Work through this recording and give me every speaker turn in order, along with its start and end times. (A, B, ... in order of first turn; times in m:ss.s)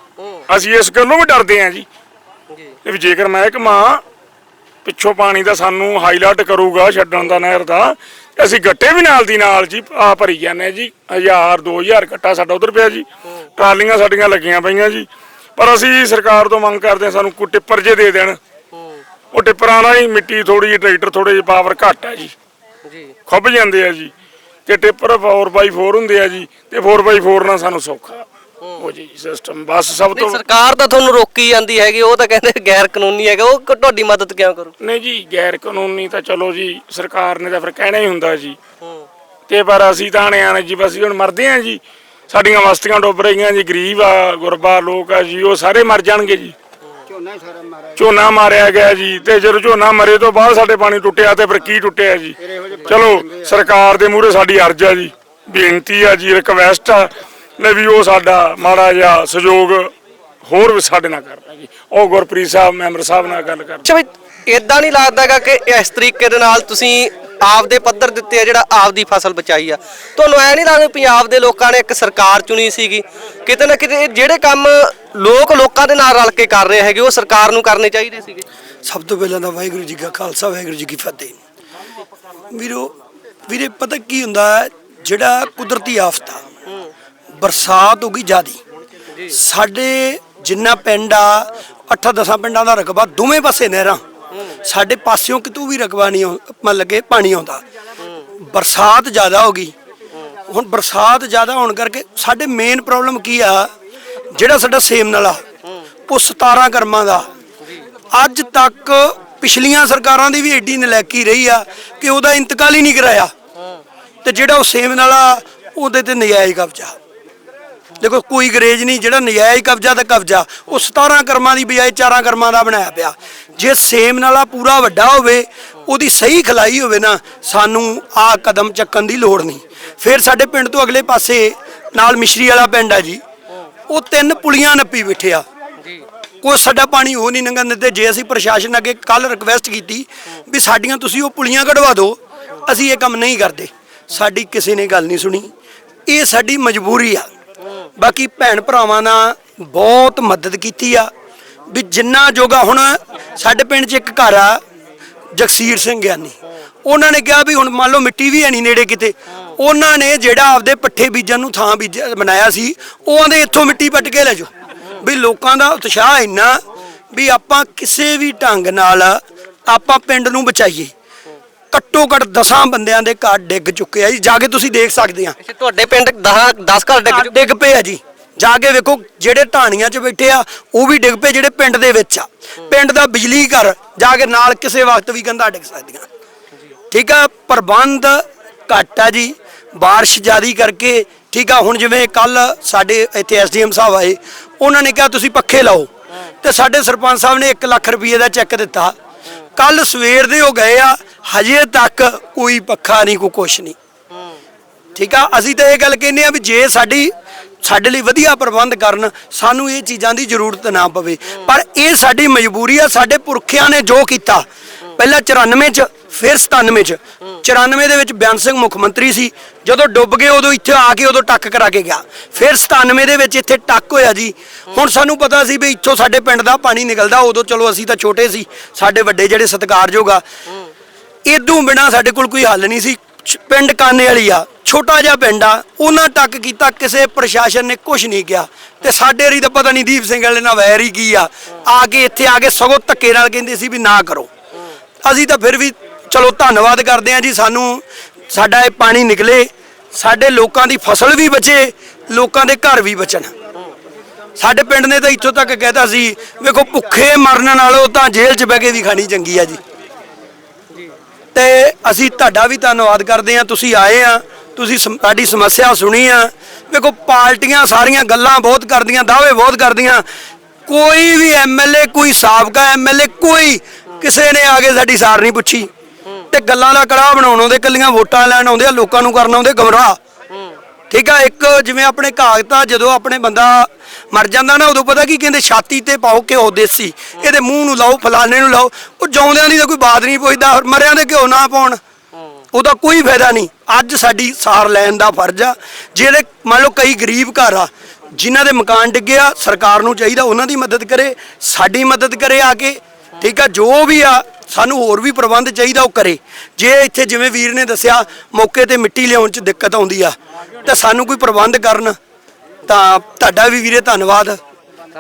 0:00.2-0:00.4 A
0:00.5-0:01.9 B
0:02.5-0:02.8 A
0:02.8-0:04.0 B
0:04.8-0:13.1 B
0:13.6-0:18.4 B
0:18.7-0:19.0 A
0:19.3-0:22.3 B
0:22.9-0:23.2 A
0:23.3-0:24.1 B
0:24.7-0:28.3 B
0:28.6-0:28.9 A
0:28.8-0:30.4 B
0:30.1-0:34.7 A
0:34.8-0:38.6 B
0:38.8-0:39.1 A
0:39.5-0:46.6 B
0:48.0-0:52.4 B
0:52.9-0:59.9 B
1:00.4-1:03.8 B
1:03.9-1:18.4 A
1:18.8-1:21.4 C
1:22.5-1:22.9 C
1:23.5-1:26.4 C
1:27.4-1:28.6 C
1:29.3-1:34.0 C
1:34.3-1:34.6 A
1:34.6-1:37.6 C
1:38.0-1:38.3 A
1:38.4-1:39.7 C
1:40.5-1:43.7 C
1:44.3-1:45.4 C
1:46.1-1:47.3 C
1:48.1-1:53.3 C
1:54.2-1:57.0 C
1:58.0-2:13.2 C
2:13.9-2:15.4 C
2:16.4-2:25.5 C
2:26.1-2:27.3 C
2:28.0-2:31.1 C
2:31.7-2:34.6 C
2:35.4-2:46.6 C
2:47.1-2:50.9 C
2:51.7-2:55.4 C
2:55.4-2:57.3 A
2:57.1-3:06.1 C
3:06.9-3:15.9 C
3:16.4-3:19.0 C
3:19.6-3:23.8 C
3:24.1-3:24.4 A
3:25.0-3:50.2 C
3:51.3-4:04.3 C
4:05.0-4:13.3 C
4:14.4-4:19.6 C
4:21.4-4:30.0 C
4:30.7-4:35.7 C
4:36.3-4:40.0 C
4:40.3-4:40.6 A
4:40.9-4:51.8 C
4:52.5-5:12.0 C
5:12.7-5:14.4 C